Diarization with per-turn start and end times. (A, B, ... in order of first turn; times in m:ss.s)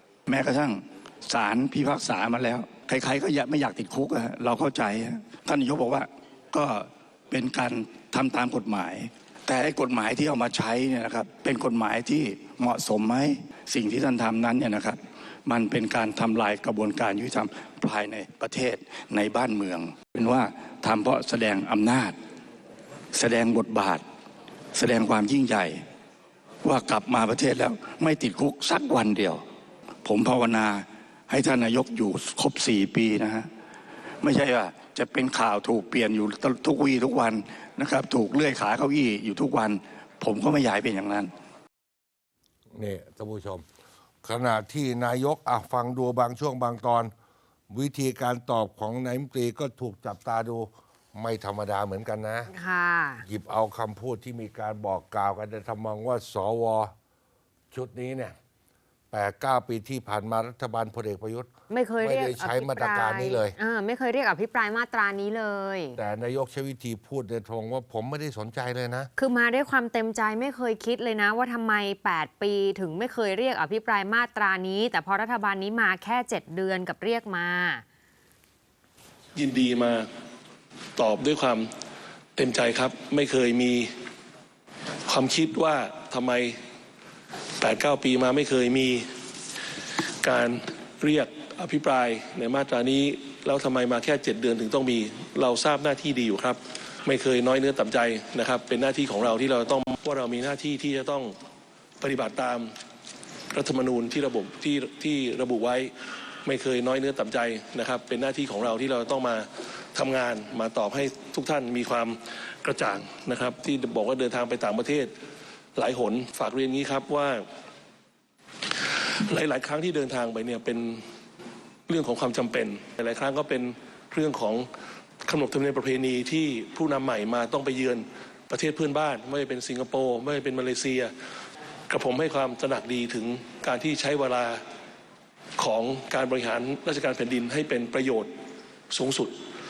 0:00.3-0:22.2 A
0:23.1-0:24.0 A
0:24.7-0:25.8 A
0:26.6-0:29.4 A
0:30.0-0:33.5 A
0:34.2-0:41.3 A
0:42.7-0:43.6 B
0:44.2-0:47.1 B
0:47.7-0:52.5 B
0:52.5-0:53.2 C
0:53.2-0:56.9 B
0:57.7-0:58.4 B
0:59.1-1:03.6 B
1:01.7-1:06.0 C
1:06.0-1:09.1 B
1:09.2-1:17.8 C
1:19.4-1:20.1 D
1:21.0-1:21.7 D
1:22.4-1:23.9 D
1:25.1-1:26.6 D
1:27.6-1:29.0 D
1:30.2-1:41.3 D
1:42.0-1:42.7 D
1:43.5-1:45.9 D
1:46.4-1:55.1 D
1:55.8-1:57.4 D
1:58.9-2:01.0 D
2:01.9-2:04.7 D
2:05.2-2:11.1 D
2:11.9-2:14.6 D
2:15.6-2:18.3 D
2:18.9-2:19.4 D